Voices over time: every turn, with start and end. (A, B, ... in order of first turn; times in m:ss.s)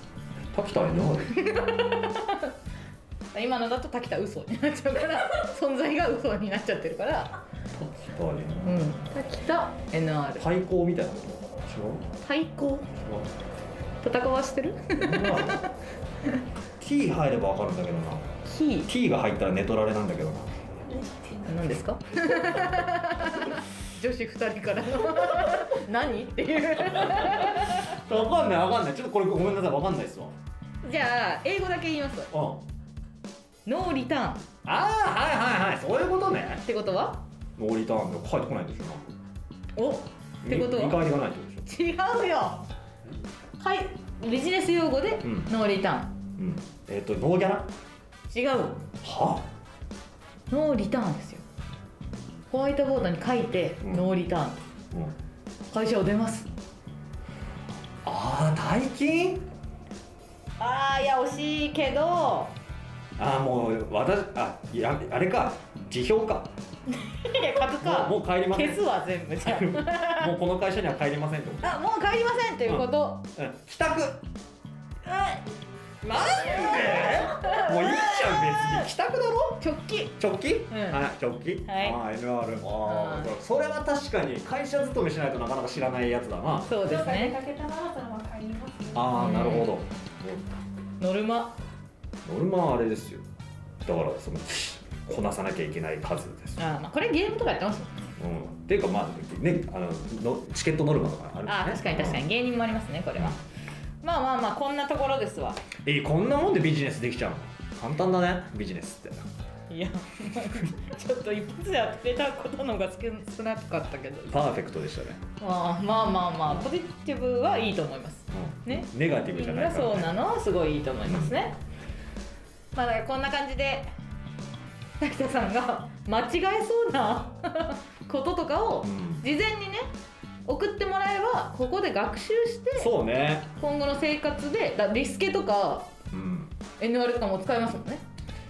0:00.5-0:01.4 A
0:01.3-0:02.5 B
0:03.3-0:07.4 B
0:07.7-0:08.9 A
0:08.6-0:10.5 B
0:10.4-0:12.0 A
0:12.2-0:12.9 B
0:13.0-0:13.3 A
0:14.0-0:15.7 B
0:14.9-0:15.7 A
0:16.8-0:18.3 A
0:18.4-0:18.9 B
0:18.8-0:20.6 A
0:21.0-0:21.4 C
0:21.4-0:27.9 B
0:22.1-0:22.9 A
0:27.1-0:30.3 A
0:30.8-0:32.3 B
0:32.3-0:32.6 A
0:33.6-0:34.4 B
0:34.6-0:36.6 A
0:36.6-0:37.2 B
0:37.6-0:39.1 A
0:39.8-0:41.0 B
0:40.4-0:41.7 A
0:41.7-0:42.7 B
0:43.6-0:46.2 B
0:45.2-0:45.5 A
0:46.4-0:47.7 A
0:48.3-0:48.9 B
0:49.0-0:49.4 A
0:50.5-0:51.4 B
0:52.5-0:54.6 B
0:53.8-0:54.1 A
0:55.7-0:56.5 B
0:58.0-0:59.5 A
1:00.6-1:02.6 B
1:03.2-1:06.5 A
1:07.0-1:10.3 B
1:07.8-1:08.8 A
1:09.4-1:11.8 A
1:11.6-1:13.3 B
1:12.6-1:14.2 A
1:15.0-1:15.4 B
1:16.0-1:19.6 A
1:16.4-1:18.9 B
1:19.6-1:20.2 B
1:20.2-1:26.8 A
1:20.7-1:21.0 B
1:21.6-1:22.0 B
1:22.8-1:23.4 B
1:26.7-1:27.4 B
1:26.8-1:29.0 C
1:28.9-1:30.5 A
1:29.1-1:29.7 B
1:31.0-1:31.6 B
1:32.2-1:33.2 A
1:33.8-1:36.6 A
1:36.6-1:38.0 B
1:38.2-1:42.2 A
1:41.4-1:43.4 B
1:44.0-1:45.6 B
1:45.8-1:49.3 A
1:49.7-1:54.4 B
1:54.3-1:55.2 A
1:55.4-2:01.6 B
1:58.3-2:00.2 A
2:01.1-2:01.4 A
2:02.7-2:03.9 B
2:05.0-2:09.9 B
2:08.8-2:09.2 A
2:10.5-2:12.9 B
2:12.8-2:13.5 A
2:13.6-2:15.9 B
2:16.1-2:16.5 A
2:16.8-2:18.0 B